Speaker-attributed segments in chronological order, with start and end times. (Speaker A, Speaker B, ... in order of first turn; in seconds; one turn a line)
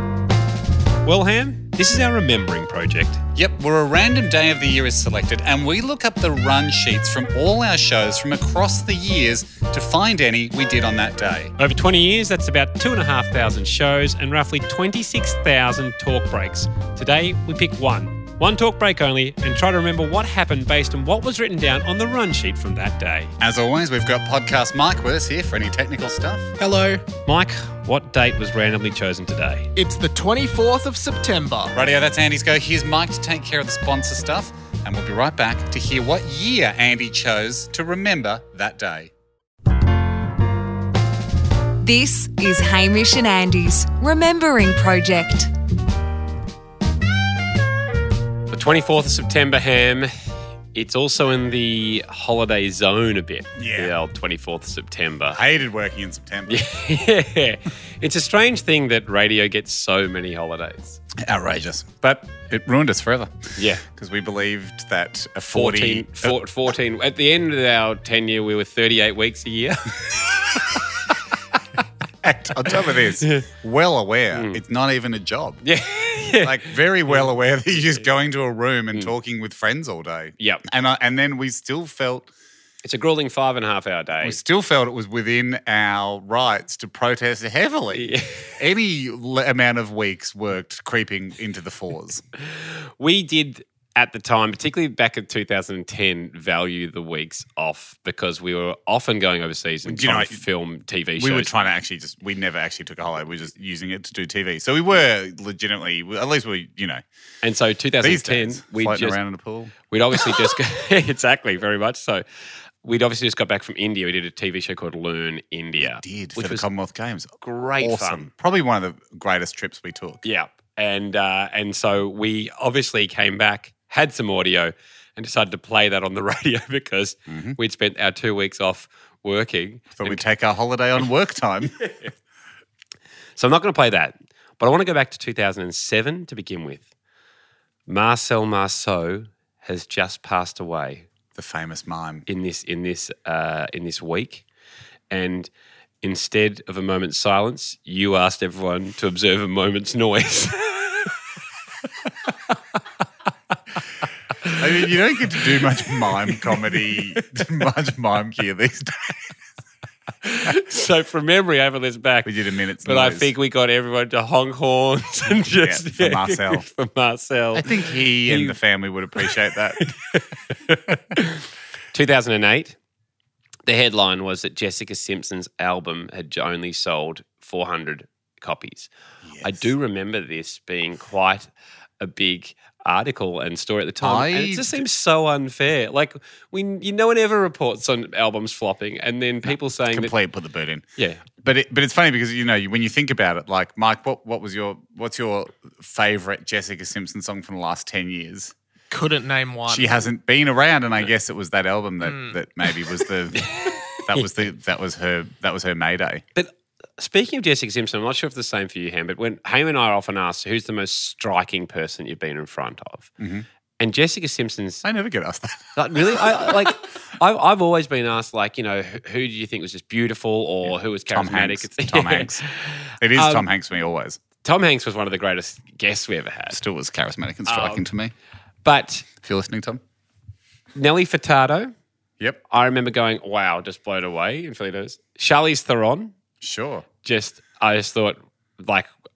Speaker A: 1.1-3.2
Speaker B: 3.4-11.5
Speaker A: 11.6-23.3
Speaker B: 23.4-26.5
Speaker C: 26.6-27.1
Speaker A: 27.2-29.7
Speaker C: 29.8-31.8
Speaker B: 31.7-39.1
Speaker D: 41.8-45.5
Speaker A: 48.5-50.1
Speaker A: 50.7-55.4
Speaker B: 53.6-53.9
Speaker B: 55.3-56.6
Speaker A: 56.5-61.0
Speaker B: 61.2-66.4
Speaker A: 63.6-63.8
Speaker A: 65.5-70.6
Speaker B: 72.2-75.6
Speaker A: 74.3-74.6
Speaker A: 75.6-77.3
Speaker B: 76.4-82.3
Speaker A: 82.8-84.4
Speaker B: 84.2-88.1
Speaker A: 87.9-88.4
Speaker B: 88.6-92.2
Speaker A: 93.0-101.6
Speaker B: 99.8-100.4
Speaker B: 101.2-107.0
Speaker A: 107.4-109.2
Speaker B: 108.0-109.7
Speaker A: 109.9-112.2
Speaker A: 112.8-116.7
Speaker B: 115.8-120.2
Speaker A: 117.4-118.3
Speaker A: 120.2-130.2
Speaker B: 127.3-127.6
Speaker B: 130.0-131.7
Speaker A: 131.8-132.1
Speaker A: 133.4-136.9
Speaker A: 137.9-141.1
Speaker B: 141.3-142.3
Speaker A: 142.3-144.4
Speaker A: 145.1-145.5
Speaker A: 146.0-151.1
Speaker B: 154.6-159.3
Speaker A: 160.2-162.3
Speaker B: 162.2-163.3
Speaker A: 162.8-168.6
Speaker B: 165.6-166.7
Speaker B: 167.6-169.8
Speaker A: 169.2-172.8
Speaker A: 173.7-178.9
Speaker B: 179.2-179.5
Speaker A: 179.4-190.1
Speaker B: 184.0-184.8
Speaker B: 189.4-190.8
Speaker A: 191.0-191.2
Speaker B: 191.4-198.5
Speaker C: 198.9-200.1
Speaker B: 199.7-206.2
Speaker C: 202.0-202.3
Speaker A: 203.6-204.2
Speaker A: 206.3-213.1
Speaker B: 213.2-213.5
Speaker A: 213.8-214.8
Speaker B: 214.8-215.8
Speaker A: 215.8-223.5
Speaker B: 221.0-222.4
Speaker B: 223.0-224.2
Speaker A: 224.4-226.6
Speaker B: 226.5-228.1
Speaker A: 227.5-227.9
Speaker A: 228.6-229.1
Speaker B: 229.2-229.8
Speaker A: 230.8-231.7
Speaker A: 232.5-236.1
Speaker B: 236.4-236.9
Speaker A: 237.0-238.9